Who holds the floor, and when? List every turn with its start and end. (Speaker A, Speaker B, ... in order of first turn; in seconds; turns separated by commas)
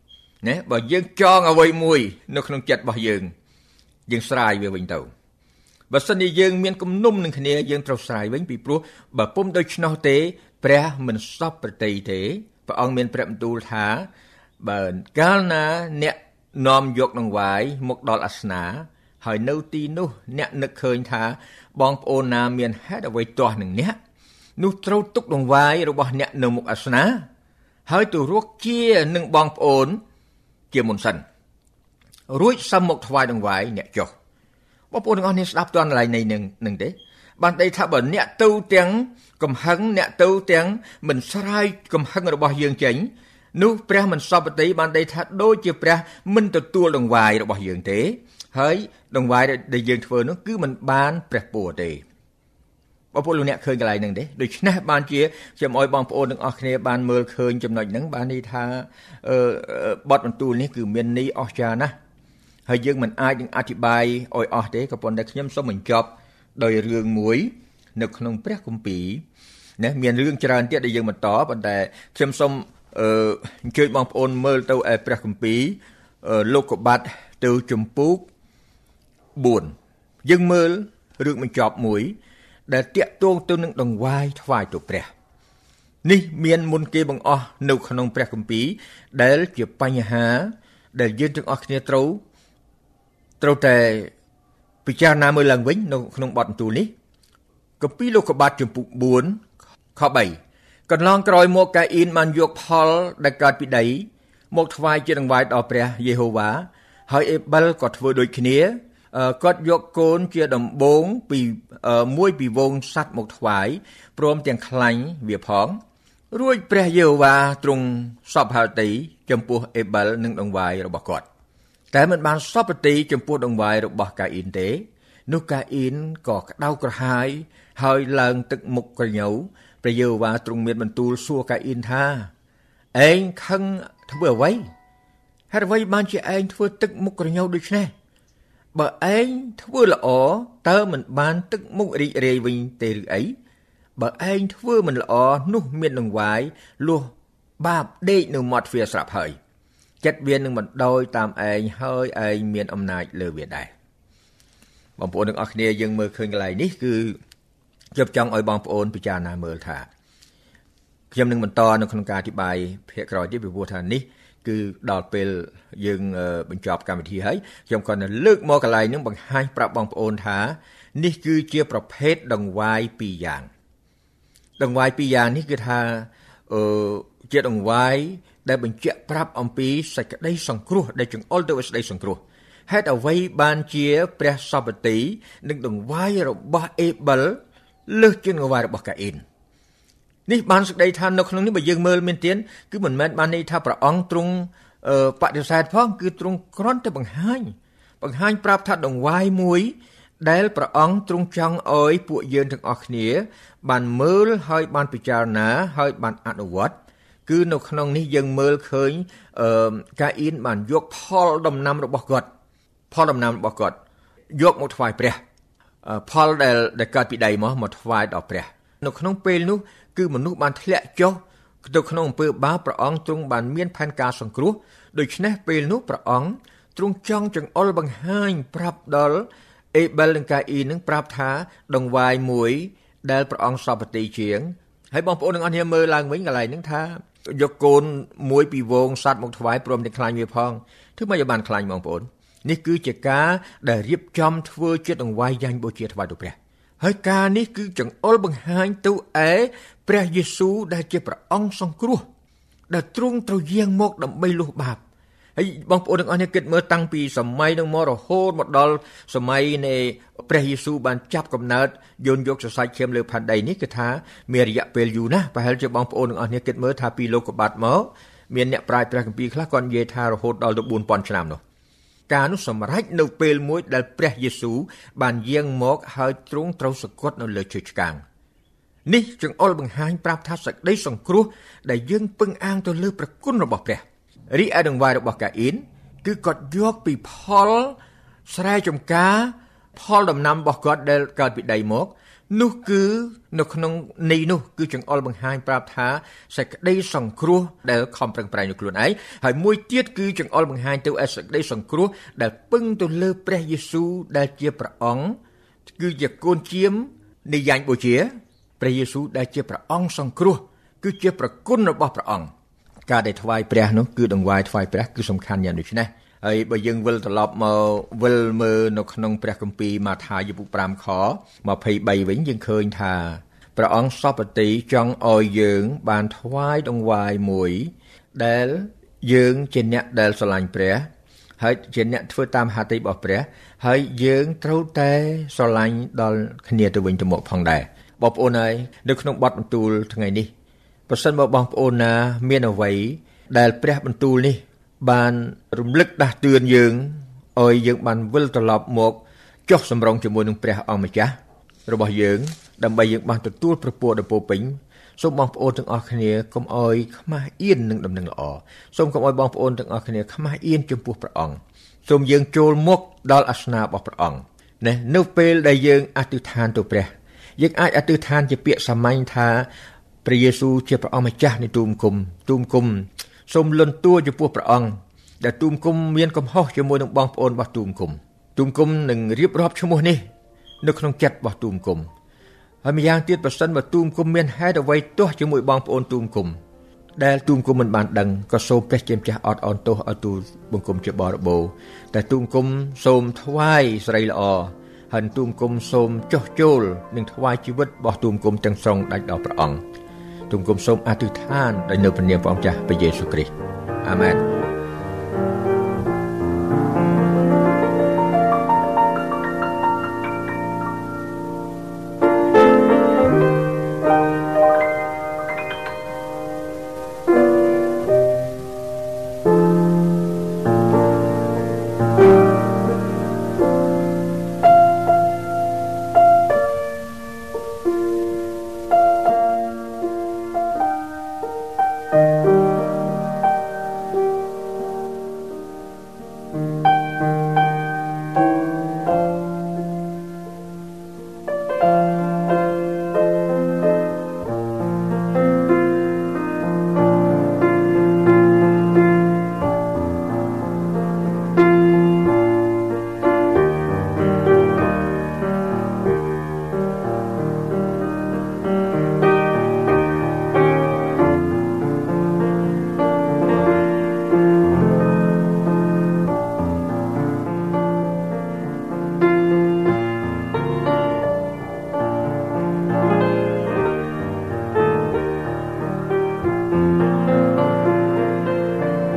Speaker A: 0.4-3.3, Speaker A: 4.1-5.1, Speaker A: 5.9-14.1, Speaker A: 14.6-24.0, Speaker A: 24.6-27.2, Speaker A: 27.9-30.0, Speaker A: 30.7-31.2, Speaker A: 32.3-34.1, Speaker A: 34.9-52.0, Speaker A: 53.1-61.9, Speaker A: 62.7-69.2, Speaker A: 69.8-78.3, Speaker A: 79.3-79.7, Speaker A: 80.2-82.1, Speaker A: 82.7-85.1, Speaker A: 86.0-92.2, Speaker A: 93.4-94.1, Speaker A: 94.8-96.9, Speaker A: 97.8-99.4, Speaker A: 99.9-100.4, Speaker A: 100.9-115.8, Speaker A: 116.3-121.2, Speaker A: 121.9-132.3, Speaker A: 132.9-134.6, Speaker A: 135.5-137.9, Speaker A: 138.7-143.3, Speaker A: 144.0-149.4, Speaker A: 150.0-153.7, Speaker A: 155.0-157.2, Speaker A: 157.9-159.9, Speaker A: 161.1-173.5, Speaker A: 174.6-189.2, Speaker A: 190.3-206.7, Speaker A: 207.3-212.3, Speaker A: 212.9-213.8, Speaker A: 214.3-215.2, Speaker A: 215.8-252.1, Speaker A: 252.7-254.8, Speaker A: 255.3-271.4, Speaker A: 272.1-278.0, Speaker A: 278.9-305.2, Speaker A: 305.7-312.3, Speaker A: 312.9-340.3, Speaker A: 340.9-351.1, Speaker A: 351.7-369.5, Speaker A: 370.0-380.1, Speaker A: 380.6-381.9, Speaker A: 382.6-386.4, Speaker A: 387.0-399.6, Speaker A: 400.3-403.3, Speaker A: 403.8-404.2